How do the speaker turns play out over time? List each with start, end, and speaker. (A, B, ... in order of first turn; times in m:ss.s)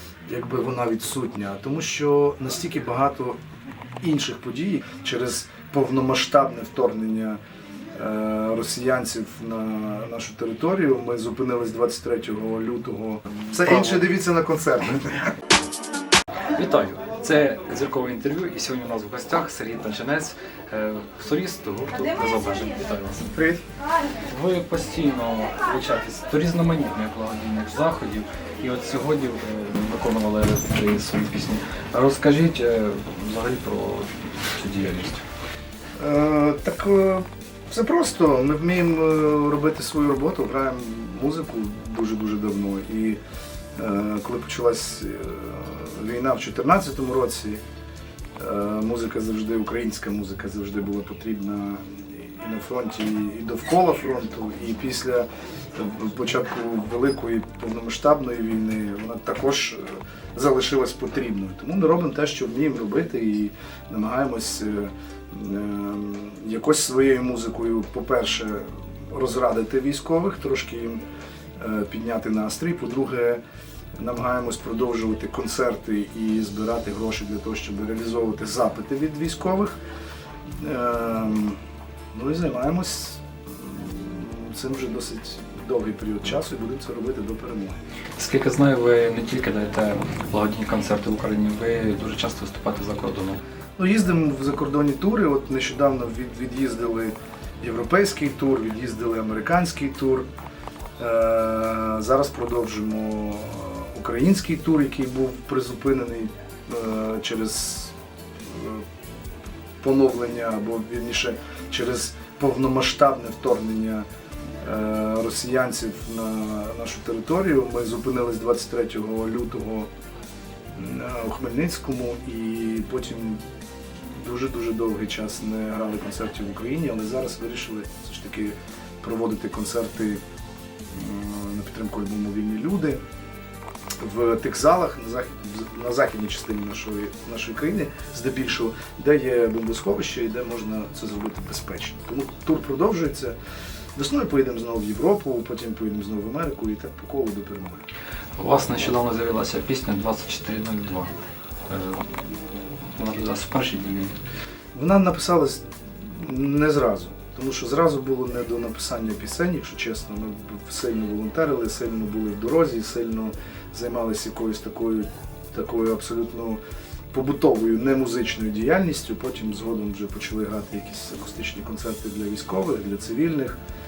0:00.3-0:03.4 A
0:04.0-0:07.4 A
0:07.9-0:15.3 A
0:16.5-0:23.3 B
0:23.3-0:23.6 A
0:24.2-0:35.2 B
0:36.0-0:43.2 A
0:43.8-0:47.6 A
0:48.4-1:11.0 A
1:11.6-1:13.4 A
1:14.0-1:19.8 A
1:20.6-1:21.6 A
1:22.1-1:27.8 A
1:28.2-1:33.4 B
1:33.8-1:40.2 A
1:41.0-1:47.9 A
1:48.5-1:48.8 A
1:49.8-1:54.0 A
1:54.6-1:59.9 A
2:00.8-2:03.4 A
2:04.1-2:10.2 A
2:10.9-2:13.0 A
2:14.0-2:23.3 A
2:24.0-2:27.8 A
2:28.4-2:31.1 B
2:31.7-2:32.2 B
2:32.9-2:34.2 B
2:34.7-2:46.6 A
2:47.1-2:53.6 A